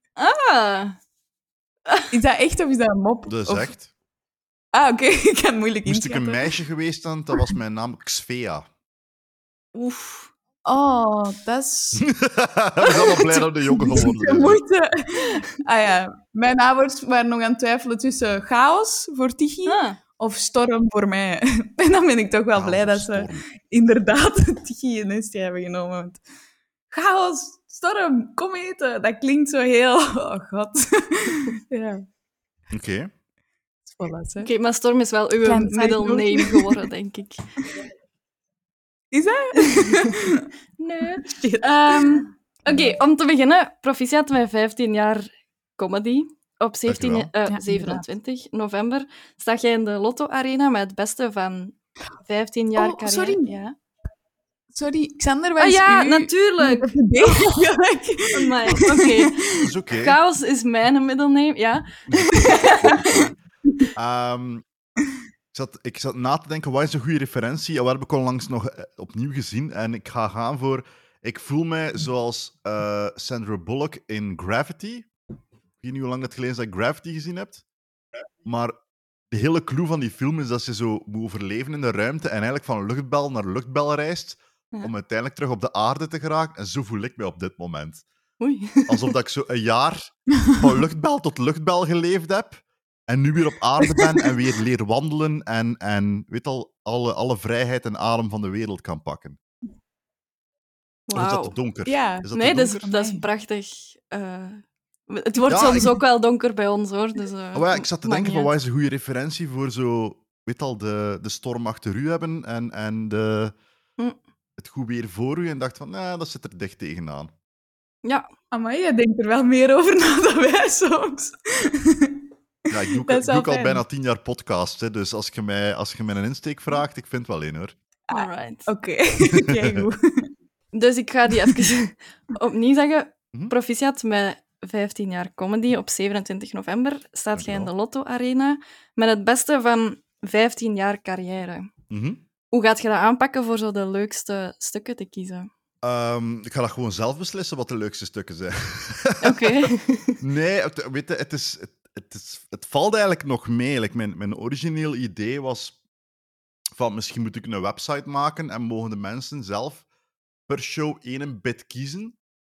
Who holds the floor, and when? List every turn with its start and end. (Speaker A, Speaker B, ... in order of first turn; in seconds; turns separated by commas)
Speaker A: 0.1-1.0, Speaker B: 2.1-3.7, Speaker C: 3.3-3.9, Speaker B: 4.7-6.5, Speaker C: 5.8-8.7, Speaker A: 9.7-10.3, Speaker B: 10.6-12.1, Speaker C: 12.0-14.6, Speaker B: 12.8-26.2, Speaker A: 19.6-20.0, Speaker C: 22.6-23.4, Speaker B: 26.9-32.0, Speaker C: 32.7-33.1, Speaker B: 33.9-34.5, Speaker A: 34.4-37.8, Speaker B: 35.4-36.9, Speaker B: 39.1-40.5, Speaker A: 39.8-40.1, Speaker A: 40.8-53.7, Speaker B: 41.2-43.0, Speaker C: 46.9-47.3, Speaker B: 47.5-48.0, Speaker B: 52.8-53.6, Speaker B: 54.7-59.6, Speaker A: 55.6-57.7, Speaker A: 58.3-63.1, Speaker C: 59.6-60.2, Speaker C: 62.1-63.3, Speaker B: 62.3-62.8, Speaker C: 63.9-64.6, Speaker C: 65.5-75.1, Speaker C: 75.8-77.6, Speaker C: 78.4-78.7, Speaker C: 79.3-88.0, Speaker A: 88.4-89.1, Speaker C: 88.9-99.4, Speaker A: 101.1-101.6, Speaker C: 101.1-102.8, Speaker B: 101.8-102.3, Speaker A: 102.3-108.5, Speaker B: 102.8-103.2, Speaker C: 105.5-105.9, Speaker C: 107.5-113.5, Speaker C: 114.6-117.3, Speaker B: 118.5-122.2, Speaker C: 122.7-127.7, Speaker B: 123.0-123.8, Speaker B: 128.1-130.3, Speaker A: 128.1-128.7, Speaker C: 129.3-129.8, Speaker A: 130.7-141.7, Speaker C: 137.3-137.7, Speaker C: 141.9-142.2, Speaker A: 142.5-145.5, Speaker C: 145.8-155.8, Speaker A: 149.2-150.2, Speaker C: 156.7-159.8, Speaker C: 160.5-162.2